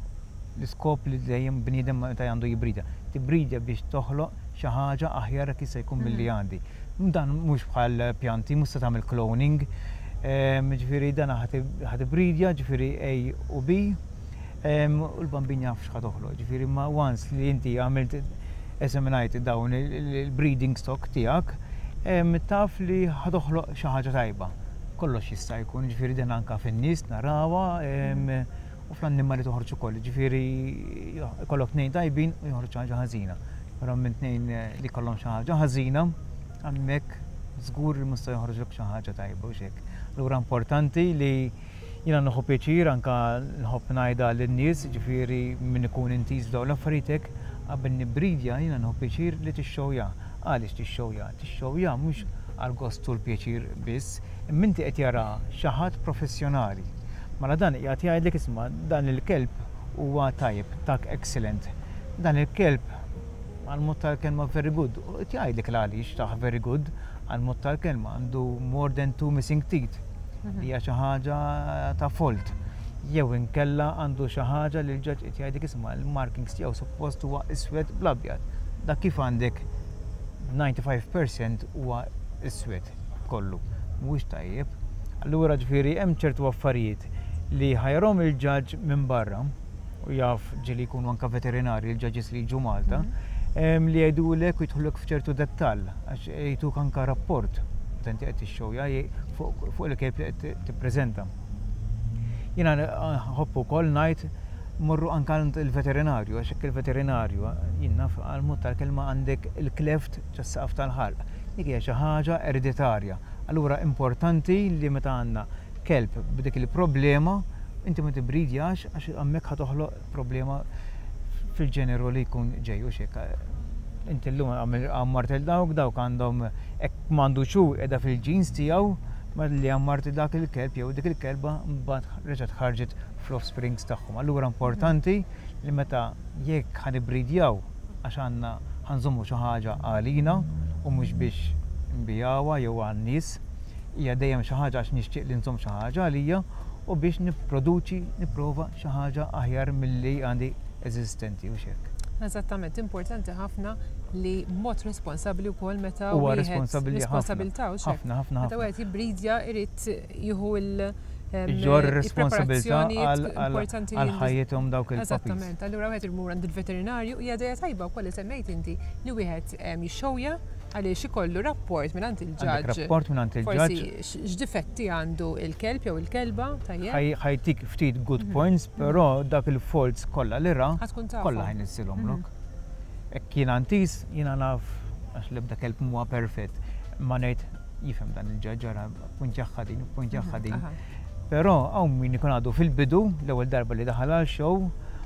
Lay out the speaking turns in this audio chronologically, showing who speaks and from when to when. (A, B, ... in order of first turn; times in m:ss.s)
0:00.6-0:09.7 A
0:06.0-0:06.3 B
0:10.2-0:14.0 A
0:14.6-1:03.1 A
1:03.6-1:10.0 A
1:10.6-1:19.7 A
1:20.4-1:41.3 A
1:42.6-2:00.6 A
2:01.4-2:23.4 A
2:23.9-2:31.9 A
2:32.2-2:44.4 B
2:36.1-2:38.6 A
2:41.4-2:45.5 A
2:44.9-2:57.0 B
2:52.4-2:53.9 A
2:56.8-3:02.3 A
3:00.8-3:02.2 B
3:03.1-3:10.8 A
3:10.1-3:10.8 B
3:11.3-3:14.7 A